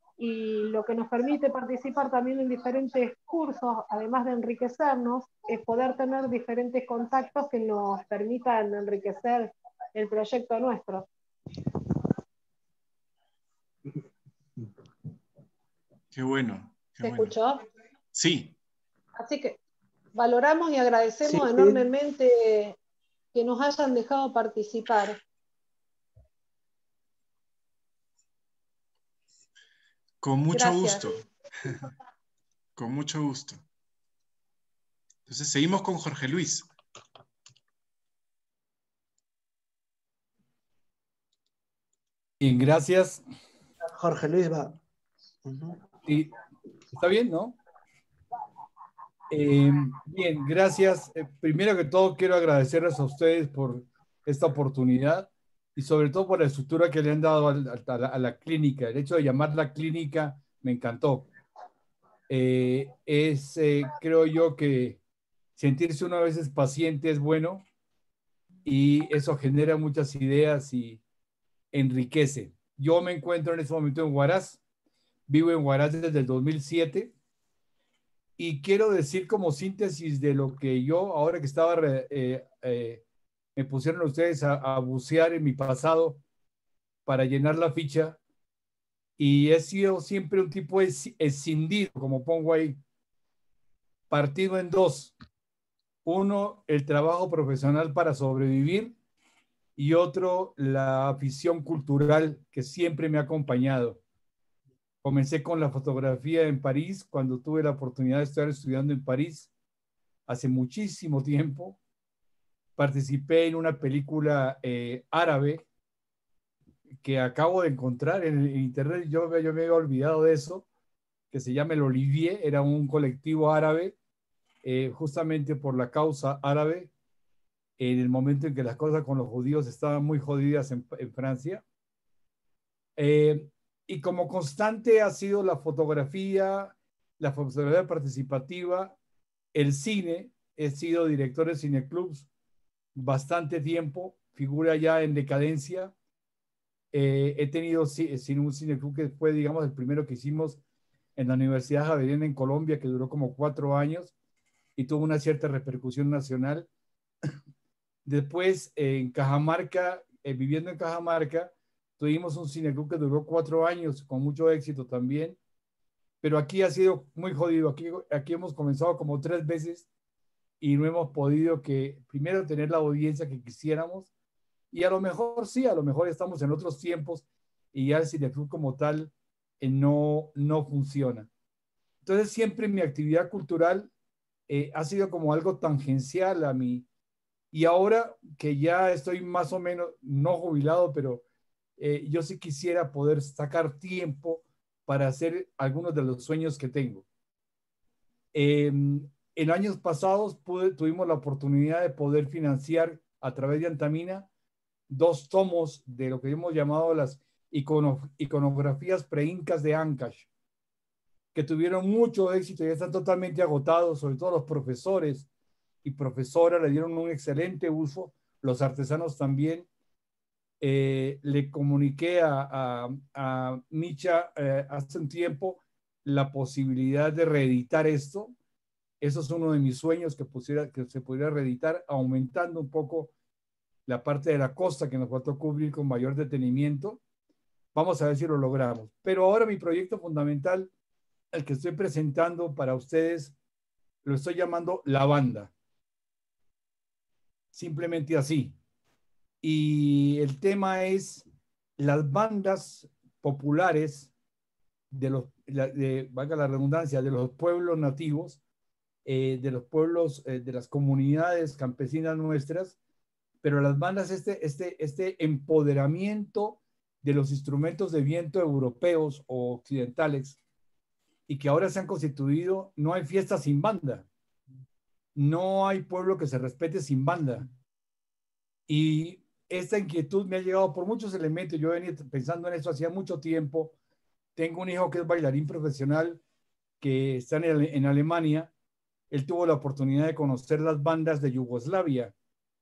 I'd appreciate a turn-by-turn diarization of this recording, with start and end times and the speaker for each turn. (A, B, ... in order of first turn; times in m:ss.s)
0:00.2-0:11.1 A
0:16.1-0:17.4 B
0:17.0-0:17.6 A
0:18.1-0:18.6 B
0:19.2-0:19.6 A
0:20.2-0:22.8 A
0:21.2-0:21.8 C
0:23.3-0:25.2 A
0:30.2-0:31.7 B
0:30.5-0:31.1 A
0:32.8-0:33.6 B
0:35.3-0:36.7 B
0:42.4-0:43.2 D
0:43.8-0:44.8 C
0:45.4-0:45.8 C
0:46.0-0:46.3 D
0:46.9-0:47.6 D
0:49.3-1:01.3 D
1:02.3-1:05.0 D
1:05.6-1:07.6 D
1:08.7-1:11.0 D
1:11.7-1:14.6 D
1:15.3-1:17.1 D
1:18.4-1:23.0 D
1:23.6-1:26.2 D
1:27.1-1:28.2 D
1:29.2-1:32.8 D
1:34.1-1:35.1 D
1:36.0-1:39.0 D
1:39.8-1:44.0 D
1:45.0-1:49.5 D
1:50.3-1:51.8 D
1:52.8-1:55.6 D
1:57.0-2:00.7 D
2:01.3-2:04.0 D
2:04.6-2:06.9 D
2:07.8-2:11.6 D
2:13.0-2:19.0 D
2:19.6-2:22.3 D
2:23.0-2:25.9 D
2:26.9-2:30.6 D
2:31.2-2:34.1 D
2:34.8-2:36.7 D
2:38.1-2:45.4 D
2:46.2-2:49.8 D
2:50.6-2:54.1 D
2:54.7-3:01.3 D
3:02.0-3:03.9 D
3:04.5-3:06.9 D
3:07.5-3:11.2 D
3:11.8-3:17.0 D
3:18.3-3:24.3 D
3:24.9-3:30.3 D
3:31.3-3:35.3 D
3:35.8-3:39.7 D
3:40.6-3:48.4 D
3:49.0-3:53.1 D
3:53.9-3:57.0 D
3:57.7-4:00.7 D
4:01.3-4:03.3 D
4:04.0-4:05.5 D
4:07.5-4:08.6 D
4:09.4-4:11.3 D
4:11.8-4:14.1 D
4:14.9-4:18.4 D
4:19.1-4:22.8 D
4:23.4-4:30.4 D
4:31.3-4:34.1 D
4:35.2-4:37.5 D
4:38.7-4:43.8 D
4:44.4-4:46.2 D
4:46.8-4:48.5 D
4:49.1-4:52.1 D